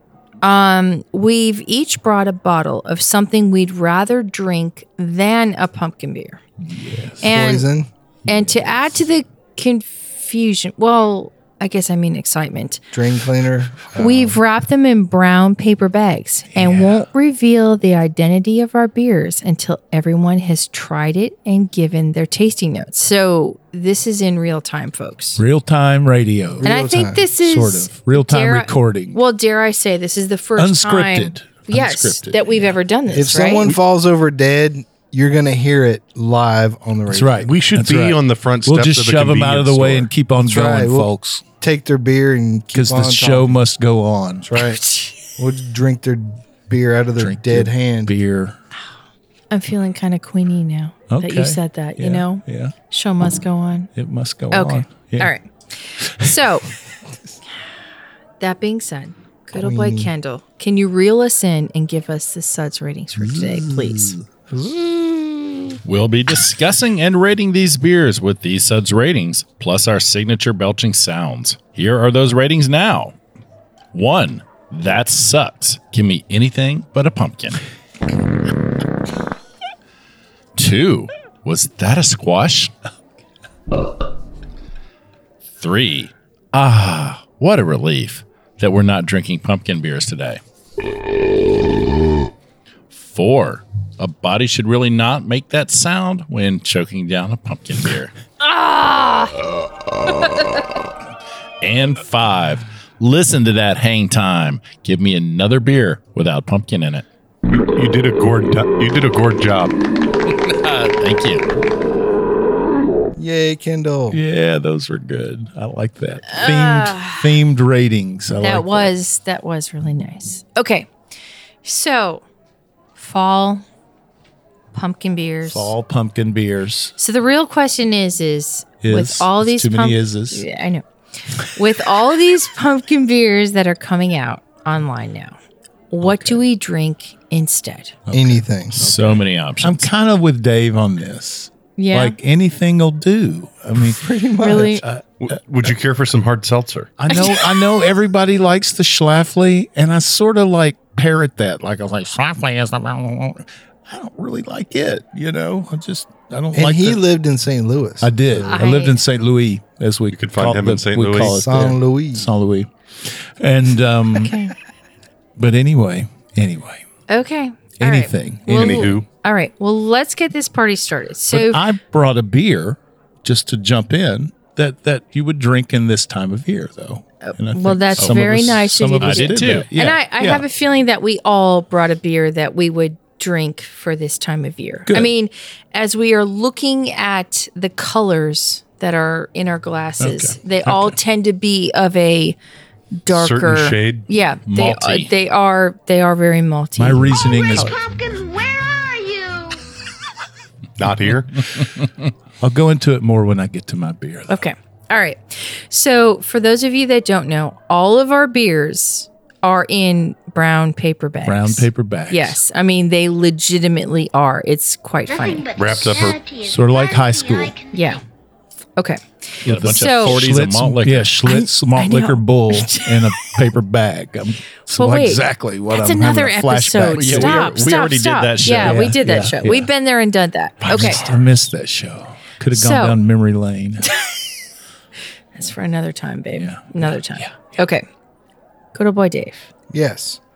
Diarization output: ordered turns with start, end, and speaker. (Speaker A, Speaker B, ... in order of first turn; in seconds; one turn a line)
Speaker A: 0.4-6.4
Speaker B: 6.6-7.3
Speaker A: 7.2-7.7
Speaker C: 7.2-7.9
Speaker A: 8.3-12.8
Speaker B: 8.3-8.7
Speaker C: 12.9-14.4
Speaker A: 13.9-25.4
Speaker B: 16.5-17.1
Speaker B: 25.4-26.7
Speaker C: 26.6-27.2
Speaker A: 26.6-33.7
Speaker B: 27.3-29.2
Speaker B: 30.6-32.7
Speaker C: 33.1-37.5
Speaker B: 37.1-41.4
Speaker D: 37.4-40.1
Speaker C: 40.4-41.1
Speaker C: 41.6-43.6
Speaker B: 42.7-44.6
Speaker C: 44.4-44.8
Speaker C: 45.4-48.1
Speaker B: 47.2-48.5
Speaker A: 49.5-53.9
Speaker B: 51.1-52.7
Speaker B: 53.9-55.3
Speaker A: 54.5-56.7
Speaker B: 56.0-56.4
Speaker A: 58.4-64.2
Speaker C: 59.5-60.1
Speaker B: 63.2-65.8
Speaker E: 65.8-73.1
Speaker E: 73.9-77.6
Speaker E: 80.5-82.7
Speaker E: 85.6-90.4
Speaker E: 92.9-98.1
Speaker A: 98.4-99.4
Speaker A: 100.1-100.6
Speaker E: 101.6-107.0
Speaker D: 107.5-109.7
Speaker E: 110.3-111.4
Speaker C: 113.2-114.2
Speaker B: 114.1-114.7
Speaker E: 114.3-115.4
Speaker B: 115.4-118.9
Speaker A: 116.2-117.4
Speaker A: 118.4-120.9
Speaker A: 121.6-122.2
Speaker A: 123.0-123.6
Speaker A: 124.7-125.7
Speaker B: 125.4-126.9
Speaker A: 127.0-130.8
Speaker B: 128.8-130.4
Speaker A: 131.4-135.3
Speaker A: 135.9-137.9
Speaker B: 136.0-136.4
Speaker B: 138.1-144.0
Speaker C: 138.1-138.8
Speaker E: 138.8-139.9
Speaker A: 141.8-142.2
Speaker C: 143.7-144.8
Speaker A: 144.4-144.8
Speaker B: 144.8-145.4
Speaker D: 145.2-146.9
Speaker B: 147.0-157.0
Speaker A: 147.1-147.3
Speaker C: 156.5-158.6
Speaker B: 158.0-164.5
Speaker A: 158.4-159.0
Speaker D: 160.1-161.4
Speaker C: 161.2-162.3
Speaker A: 164.1-164.5
Speaker B: 165.4-166.8
Speaker A: 167.1-171.6
Speaker B: 167.8-168.9
Speaker D: 168.5-169.1
Speaker B: 171.3-180.4
Speaker A: 177.2-192.4
Speaker E: 179.0-179.7
Speaker B: 190.0-191.0
Speaker A: 193.0-197.7
Speaker D: 193.1-194.1
Speaker E: 194.5-195.1
Speaker B: 196.8-197.7
Speaker F: 197.1-199.7
Speaker D: 200.8-201.5
Speaker B: 202.4-204.4
Speaker A: 204.3-215.5
Speaker B: 211.2-212.4
Speaker F: 215.1-218.0
Speaker D: 215.6-216.2
Speaker B: 216.4-217.5
Speaker A: 217.7-218.0
Speaker A: 218.8-220.2
Speaker B: 219.4-227.7
Speaker E: 219.4-221.1
Speaker A: 221.2-223.3
Speaker A: 224.7-231.1
Speaker E: 226.9-229.0
Speaker B: 228.5-229.7
Speaker B: 230.6-233.9
Speaker A: 232.5-233.0
Speaker A: 233.8-234.1
Speaker A: 235.3-237.8
Speaker B: 236.4-237.3
Speaker A: 238.7-239.4
Speaker C: 239.7-240.2